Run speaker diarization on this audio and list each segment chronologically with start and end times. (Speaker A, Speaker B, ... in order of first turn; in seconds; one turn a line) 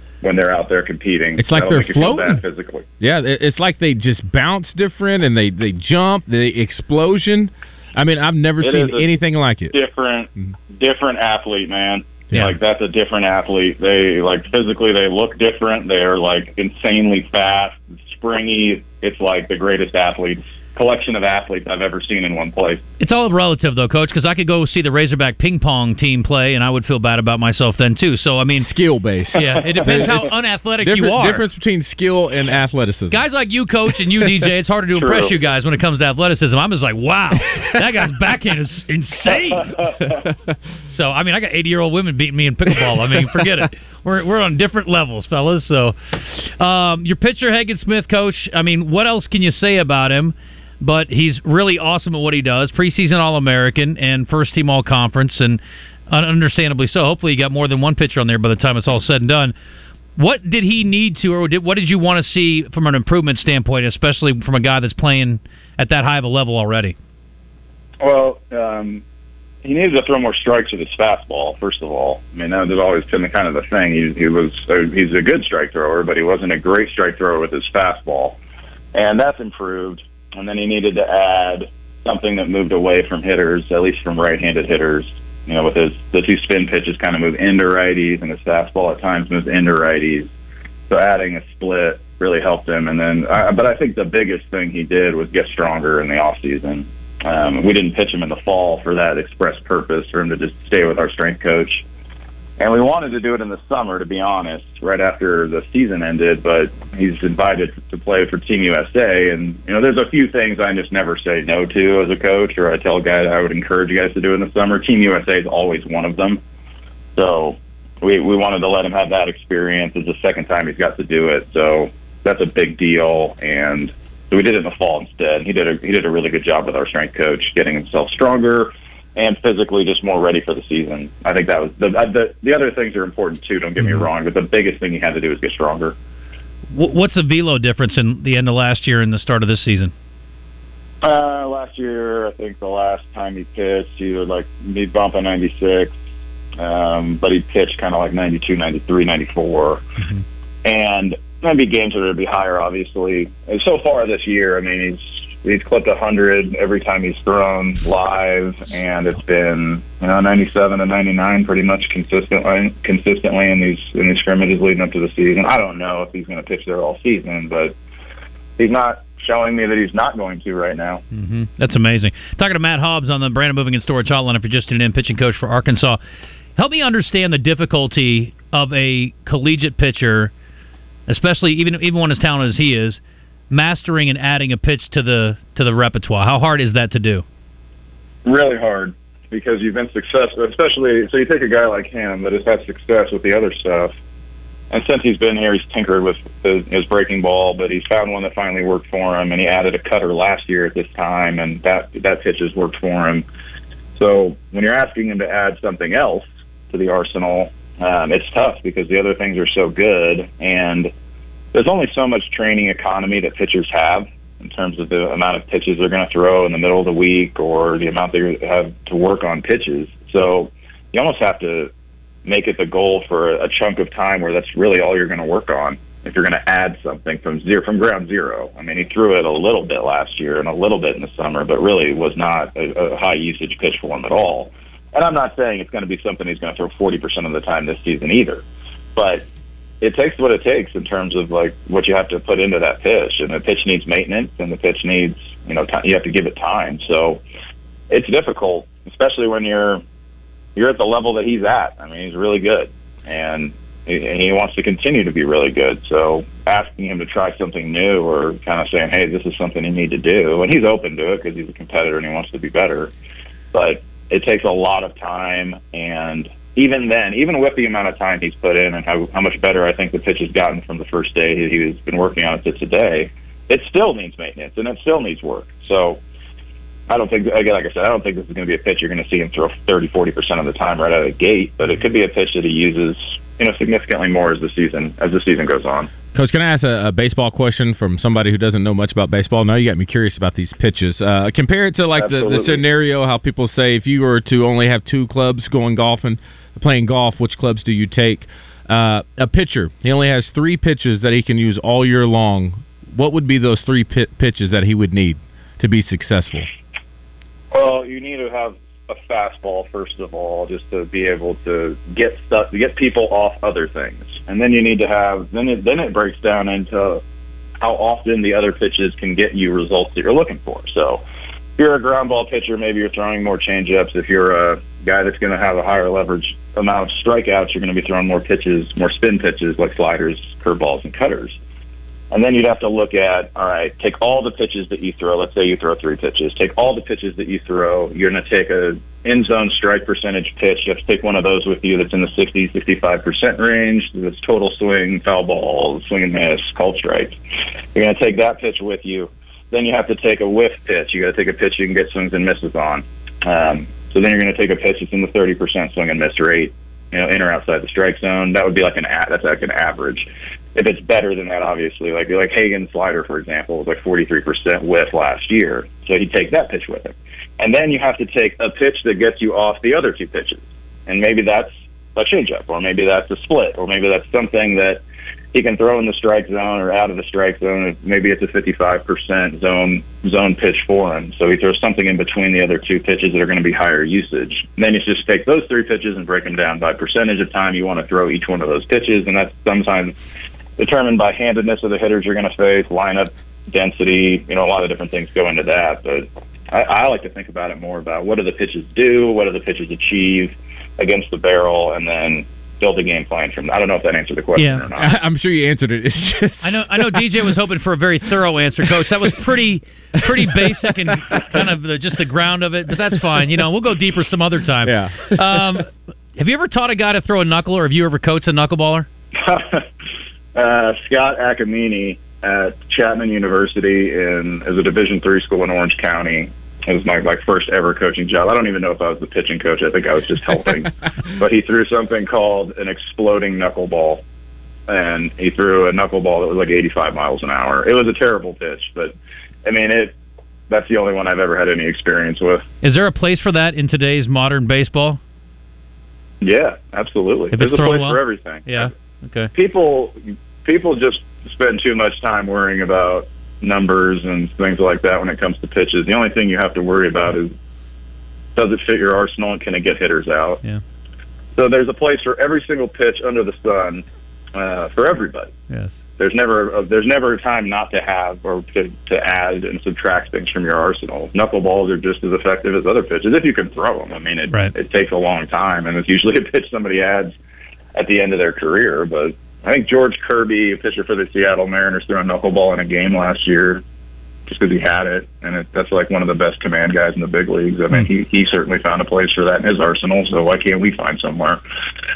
Speaker A: 0.2-2.8
Speaker B: 1.4-2.4
Speaker B: 3.0-9.8
Speaker A: 8.6-9.1
Speaker A: 9.7-22.8
Speaker C: 23.0-28.7
Speaker B: 28.6-33.2
Speaker C: 29.3-31.4
Speaker C: 33.1-39.7
Speaker A: 35.0-35.3
Speaker C: 40.9-59.5
Speaker B: 43.0-43.5
Speaker C: 60.2-66.9
Speaker A: 68.0-69.0
Speaker A: 69.6-78.4
Speaker A: 78.9-90.3
Speaker A: 90.9-101.8
Speaker A: 102.6-116.4
Speaker A: 117.2-135.9
Speaker C: 136.7-139.9
Speaker A: 141.0-145.9
Speaker A: 146.6-149.8
Speaker A: 150.6-167.7
Speaker A: 168.6-171.0
Speaker C: 171.1-176.0
Speaker C: 176.6-180.3
Speaker C: 181.1-187.2
Speaker A: 188.2-193.9
Speaker A: 194.7-203.2
Speaker A: 203.9-210.9
Speaker A: 211.5-221.7
Speaker A: 222.2-238.4
Speaker A: 238.9-239.2
Speaker A: 239.8-247.2
Speaker A: 247.9-249.8
Speaker A: 250.6-262.9
Speaker A: 263.5-276.0
Speaker A: 276.9-285.9
Speaker B: 286.1-306.5
Speaker A: 291.9-292.6
Speaker A: 307.5-317.0
Speaker A: 317.6-321.0
Speaker A: 321.6-331.4
Speaker A: 332.1-347.2
Speaker A: 347.7-374.8
Speaker A: 375.3-389.9
Speaker A: 390.6-404.9
Speaker C: 404.4-404.7
Speaker B: 404.8-407.3
Speaker C: 406.4-418.9
Speaker B: 408.6-409.1
Speaker B: 410.0-411.4
Speaker B: 414.6-415.5
Speaker A: 419.2-419.6
Speaker A: 420.3-434.0
Speaker A: 434.7-438.9
Speaker A: 439.4-439.9
Speaker A: 440.5-442.4
Speaker C: 442.6-445.0
Speaker A: 446.2-448.7
Speaker C: 447.3-449.3
Speaker A: 449.3-457.3
Speaker A: 458.4-460.4
Speaker A: 461.4-463.8
Speaker A: 464.3-465.3
Speaker C: 465.5-465.8
Speaker A: 466.0-477.1
Speaker A: 477.7-483.6
Speaker A: 484.3-491.4